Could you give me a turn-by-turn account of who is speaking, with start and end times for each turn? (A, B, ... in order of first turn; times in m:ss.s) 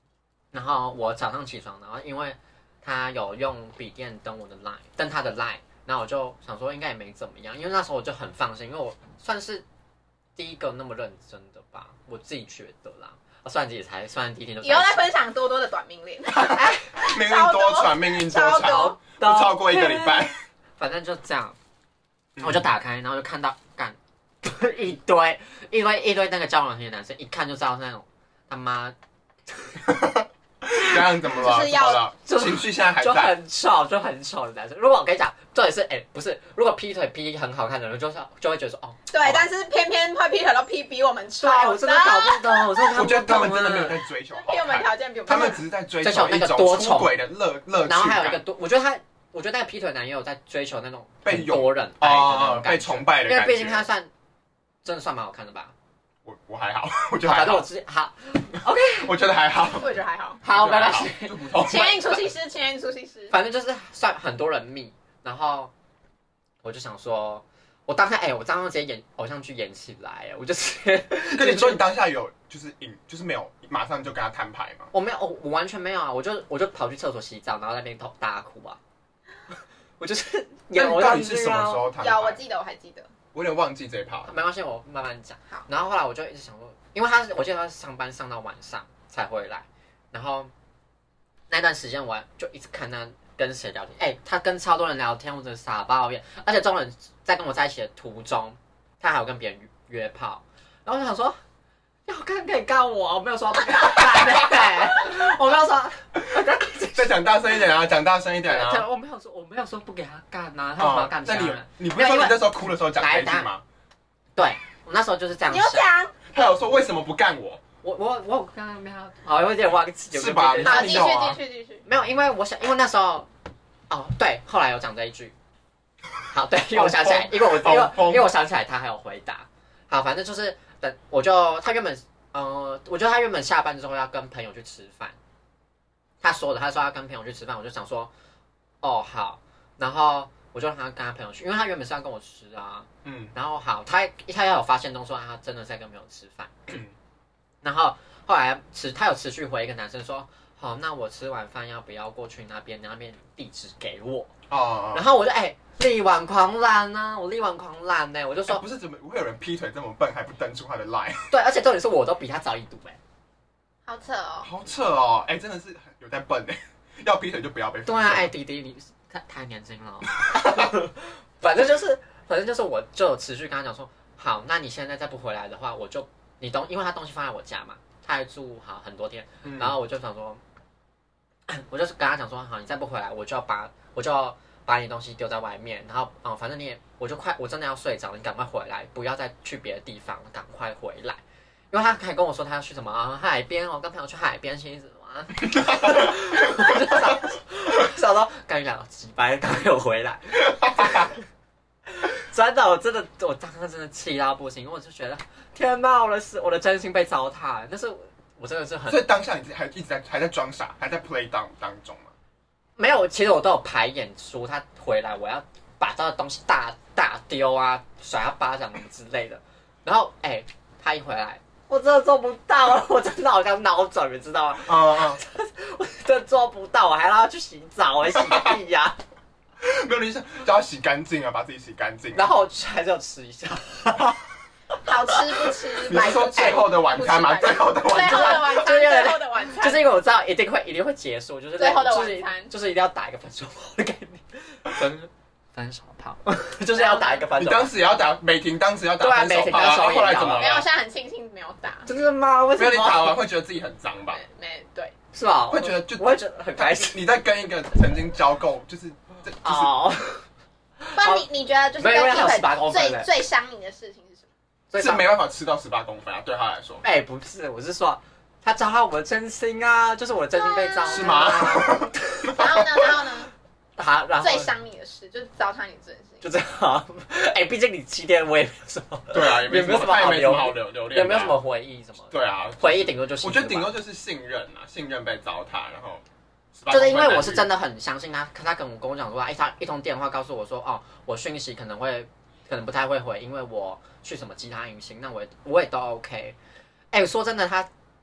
0:00.5-0:09.6 A
0:10.4-0:15.1 A
0:14.6-0:19.0 B
0:16.4-0:16.8 A
0:17.0-0:20.3 C
0:18.6-0:21.6 A
0:22.4-0:22.6 C
0:22.4-0:28.9 A
0:29.5-0:29.8 A
0:29.8-0:33.3 C
0:31.3-0:32.0 B
0:32.2-0:39.5 A
0:39.1-0:42.9 B
0:41.4-0:44.0 A
0:42.9-0:48.4 C
0:44.3-0:45.6 B
0:46.0-0:47.1 A
0:47.8-0:54.1 A
0:51.2-0:53.8 C
0:54.8-0:55.7 A
0:56.2-0:57.7 C
0:57.2-0:59.2 A
0:59.0-0:59.9 C
0:59.8-1:00.4 B
1:00.4-1:02.2 A
1:00.4-1:02.0 C
1:01.6-1:03.3 B
1:03.3-1:05.7 A
1:06.6-1:11.8 A
1:11.3-1:14.9 C
1:14.9-1:18.8 A
1:20.0-1:21.8 A
1:20.7-1:22.4 C
1:22.0-1:23.1 B
1:23.3-1:24.3 C
1:24.3-1:30.5 A
1:31.5-1:41.4 A
1:42.1-1:47.2 A
1:46.9-1:48.8 C
1:48.4-1:53.5 A
1:50.8-1:53.6 C
1:54.4-1:55.8 A
1:55.5-1:56.1 B
1:56.3-1:57.6 C
1:57.8-2:01.3 A
2:00.1-2:01.4 C
2:00.6-2:01.8 B
2:01.8-2:03.3 A
2:03.9-2:05.3 A
2:06.3-2:15.2 A
2:06.7-2:08.3 C
2:16.2-2:18.1 A
2:18.8-2:26.7 A
2:23.0-2:23.3 C
2:26.7-2:26.9 C
2:27.6-2:34.3 A
2:34.5-2:35.0 C
2:34.9-2:38.6 A
2:38.5-2:41.3 C
2:41.3-2:43.0 A
2:43.9-2:44.5 B
2:44.4-2:48.3 C
2:47.8-3:00.4 A
2:59.4-2:59.8 C
3:01.5-3:11.2 A
3:11.7-3:21.2 A
3:20.8-3:21.1 C
3:21.9-3:29.0 A
3:28.9-3:32.1 C
3:32.8-3:49.0 A
3:44.6-3:45.2 C
3:48.2-3:48.5 C
3:49.6-3:52.3 C
3:52.1-3:54.2 A
3:54.8-3:59.8 B
3:55.9-3:58.6 C
3:55.9-3:57.1 A
3:57.9-4:07.7 A
4:01.6-4:02.5 B
4:06.7-4:07.2 B
4:07.4-4:10.6 C
4:09.0-4:10.5 A
4:10.2-4:11.9 B
4:11.8-4:13.2 A
4:12.6-4:14.2 C
4:14.1-4:14.9 B
4:15.1-4:17.0 A
4:15.5-4:19.7 C
4:19.4-4:20.2 A
4:20.8-4:21.2 A
4:21.0-4:24.3 B
4:21.8-4:23.1 A
4:24.7-4:25.0 A
4:24.8-4:26.8 C
4:26.8-4:32.5 A
4:30.3-4:31.3 B
4:30.9-4:32.4 C
4:32.3-4:33.3 B
4:33.8-4:34.5 A
4:34.2-4:36.2 B
4:36.2-4:43.7 A
4:39.1-4:41.4 C
4:42.1-4:46.0 C
4:46.5-4:47.5 C
4:46.7-4:56.4 A
4:56.9-4:57.7 A